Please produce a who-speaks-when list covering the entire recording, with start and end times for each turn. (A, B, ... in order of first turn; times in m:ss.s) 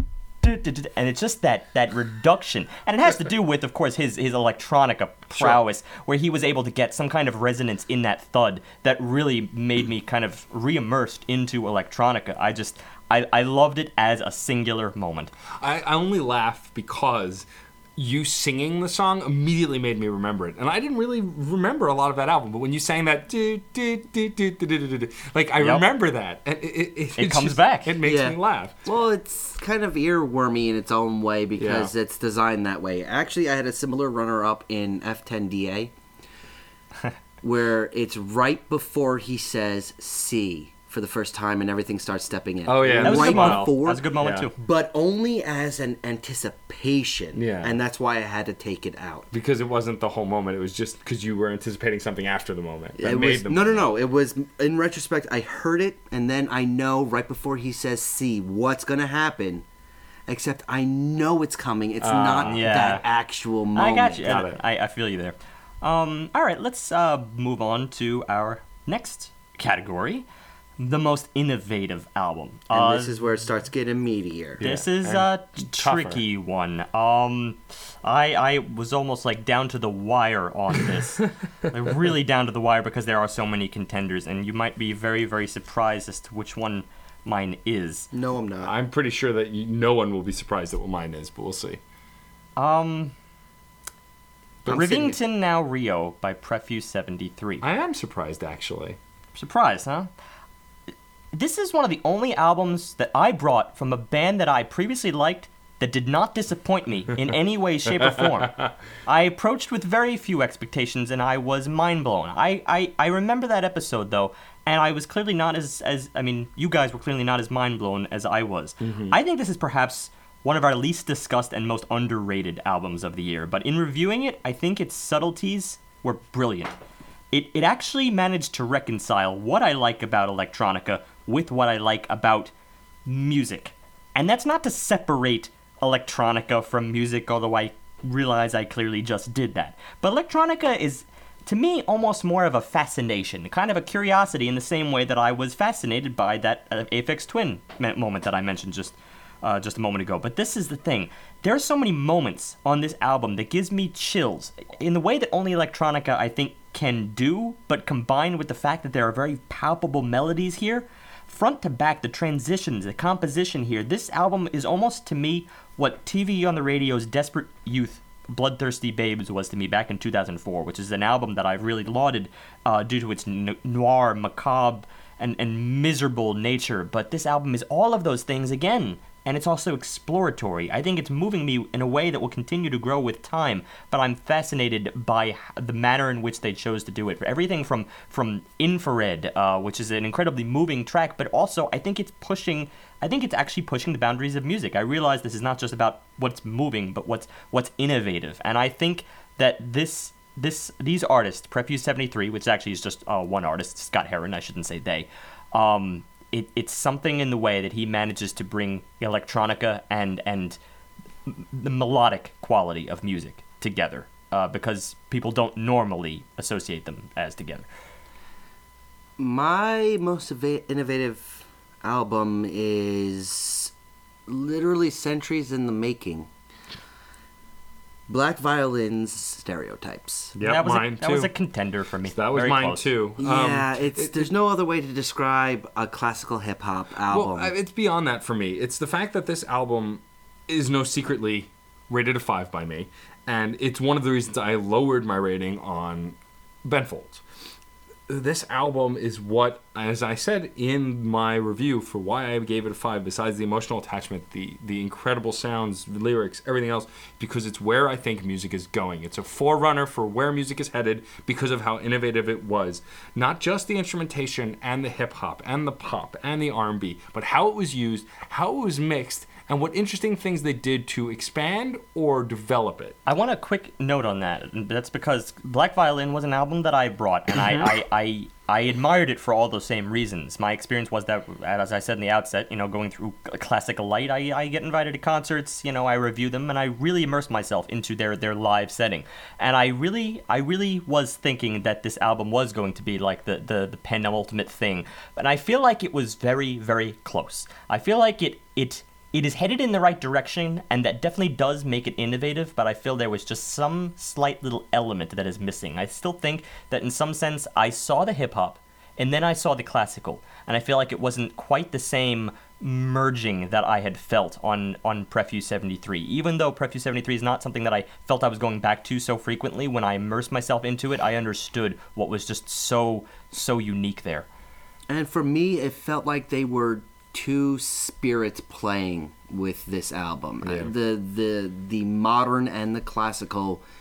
0:00.4-0:15.3 A
0:05.4-0:05.6 B
0:15.6-0:28.9 B
0:25.6-0:25.8 A
0:27.2-0:27.9 A
0:28.0-0:35.9 C
0:31.6-0:31.9 B
0:37.4-0:49.3 C
0:42.6-0:44.5 B
0:43.0-0:44.5 A
0:47.3-0:47.8 B
0:49.3-0:53.8 B
0:53.0-0:59.6 C
1:00.3-1:04.4 C
1:02.0-1:02.9 B
1:02.4-1:03.0 A
1:03.7-1:10.2 A
1:04.2-1:04.6 B
1:10.8-1:13.1 A
1:12.7-1:14.6 C
1:14.6-1:16.2 B
1:14.6-1:28.1 A
1:28.1-1:28.7 C
1:28.6-1:31.8 B
1:32.6-1:33.1 A
1:34.6-1:35.2 C
1:34.7-1:37.6 A
1:37.6-1:39.0 B
1:39.3-1:40.1 A
1:41.3-2:06.8 A
1:47.9-1:48.7 B
1:58.8-1:59.2 B
2:07.3-2:12.5 A
2:13.0-3:30.6 A
3:31.2-3:37.6 A
3:39.2-3:43.7 C
3:44.3-3:46.3 C
3:48.1-3:50.3 C
3:50.4-3:51.3 B
3:50.4-3:52.9 A
3:52.1-3:54.3 B
3:53.2-3:57.5 C
3:57.1-4:07.2 B
4:08.1-4:33.0 B
4:33.0-5:24.3 A
4:37.3-4:37.7 B
5:24.9-5:33.6 C
5:30.4-5:30.7 B